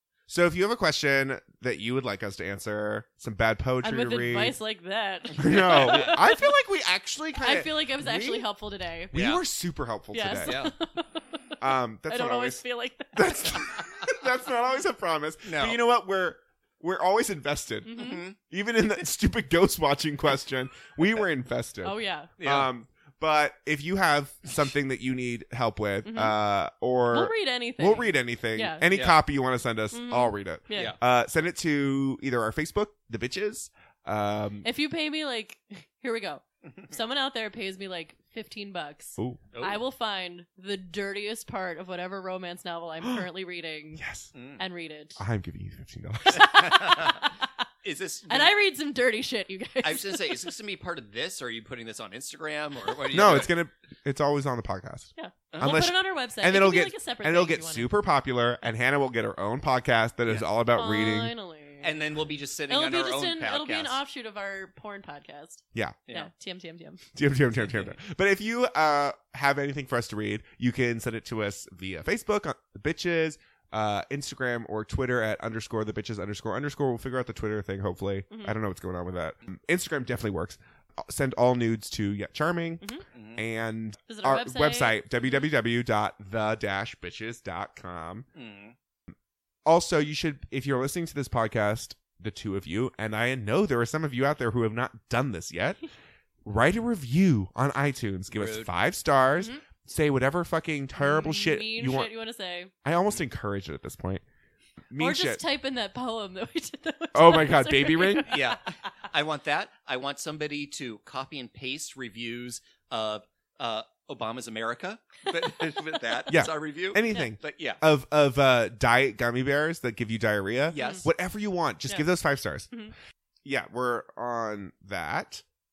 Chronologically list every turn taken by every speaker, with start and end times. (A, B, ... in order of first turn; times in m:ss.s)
0:00.3-0:04.6 A
0:03.8-0:06.6 B
0:05.4-0:08.4 A
0:05.4-0:06.2 C
0:07.4-0:09.1 B
0:09.1-0:10.6 A
0:09.1-0:09.4 C
0:10.1-0:13.8 B
0:10.4-0:10.7 C
0:11.6-0:12.6 A
0:13.1-0:34.7 A
0:15.4-0:15.8 C
0:17.8-0:18.2 B
0:17.9-0:18.4 C
0:21.8-0:22.3 B
0:22.4-0:22.7 C
0:26.0-0:26.4 B
0:27.1-0:28.9 B
0:28.9-0:29.2 C
0:29.9-0:31.0 B
0:34.6-0:44.0 B
0:39.2-0:39.4 A
0:39.5-0:39.8 C
0:44.0-0:44.3 A
0:44.3-0:44.6 C
0:44.6-0:45.2 B
0:45.2-0:46.6 A
0:46.3-0:47.5 B
0:46.4-0:47.2 C
0:47.8-0:48.5 C
0:48.3-0:50.5 B
0:49.8-0:53.5 C
0:53.1-1:01.3 A
0:55.2-0:57.9 B
0:55.5-0:55.9 C
1:00.7-1:02.0 B
1:01.8-1:04.0 C
1:02.7-1:07.1 B
1:07.1-1:28.3 A
1:07.7-1:07.9 C
1:18.3-1:18.6 B
1:23.1-1:23.4 C
1:24.1-1:25.5 B
1:28.3-1:28.7 C
1:29.6-1:35.8 A
1:36.4-1:42.1 A
1:38.3-1:38.7 C
1:41.0-1:42.7 B
1:42.8-1:44.2 A
1:44.9-1:45.4 A
1:45.0-1:48.8 B
1:47.1-1:48.4 A
1:48.2-1:57.8 C
1:56.3-2:02.7 A
2:00.7-2:01.1 C
2:00.7-2:01.1 B
2:03.4-2:05.4 A